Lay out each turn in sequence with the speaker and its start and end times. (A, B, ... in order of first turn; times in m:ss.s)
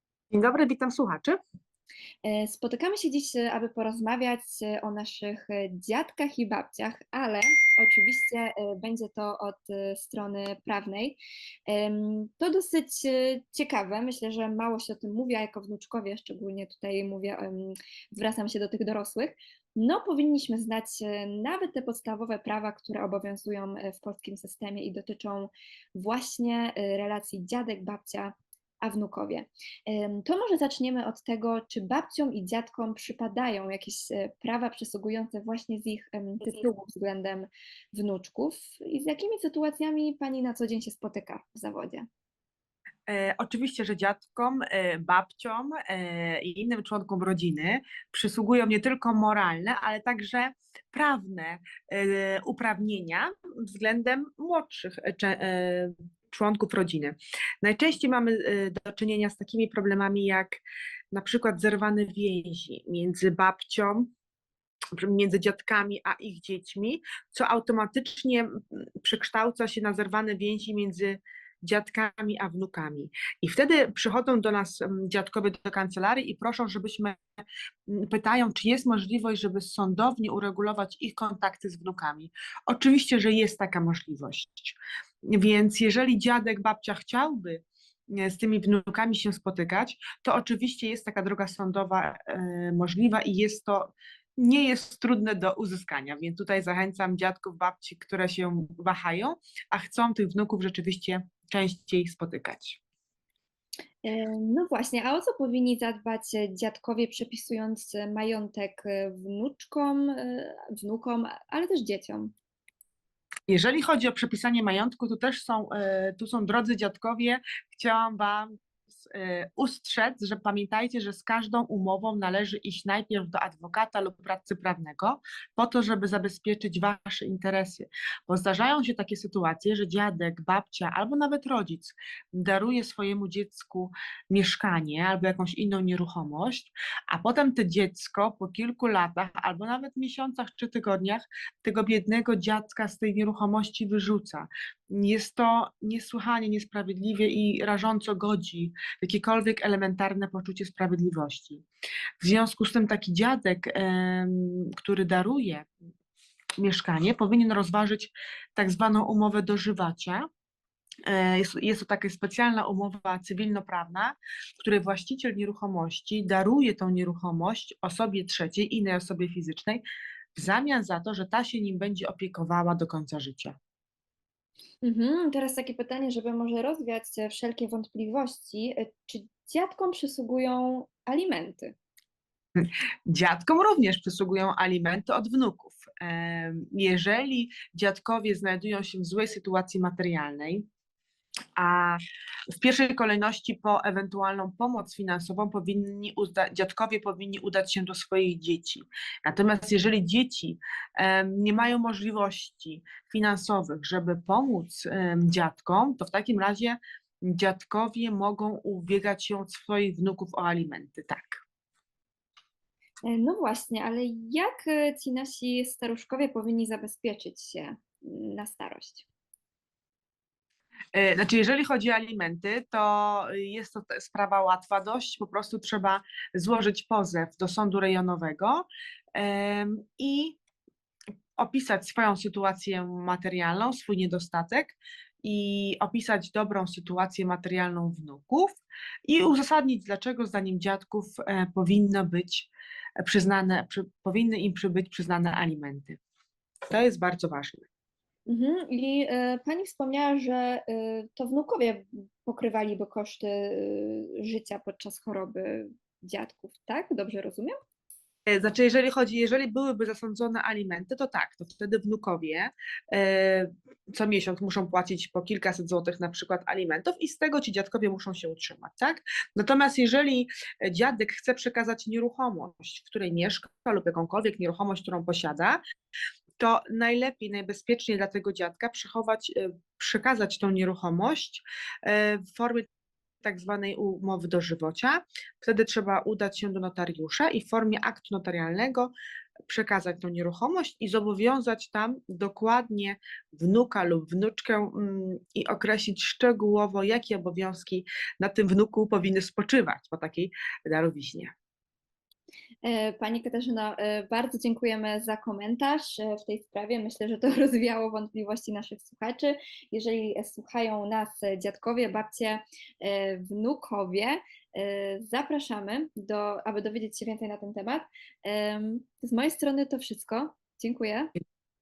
0:00.3-0:01.4 A
0:02.2-0:42.1 B
0:43.1-1:00.6 A
1:01.1-1:04.1 A
1:05.0-1:17.2 A
1:17.9-1:42.8 A
1:44.0-1:52.3 B
1:53.5-2:31.6 A
2:32.2-2:35.7 A
2:36.6-2:40.2 A
2:41.0-2:49.8 A
2:50.4-2:53.6 A
2:54.8-3:01.7 B
3:02.6-3:10.6 A
3:11.6-3:31.4 A
3:33.0-3:39.0 B
3:40.9-3:50.4 A
3:51.4-4:02.5 A
4:03.0-4:06.0 A
4:06.7-4:07.6 A
4:08.3-4:17.6 B
4:18.3-4:35.6 A
4:36.4-4:42.6 A
4:43.2-4:48.9 A
4:49.5-5:01.3 A
5:02.6-5:21.1 B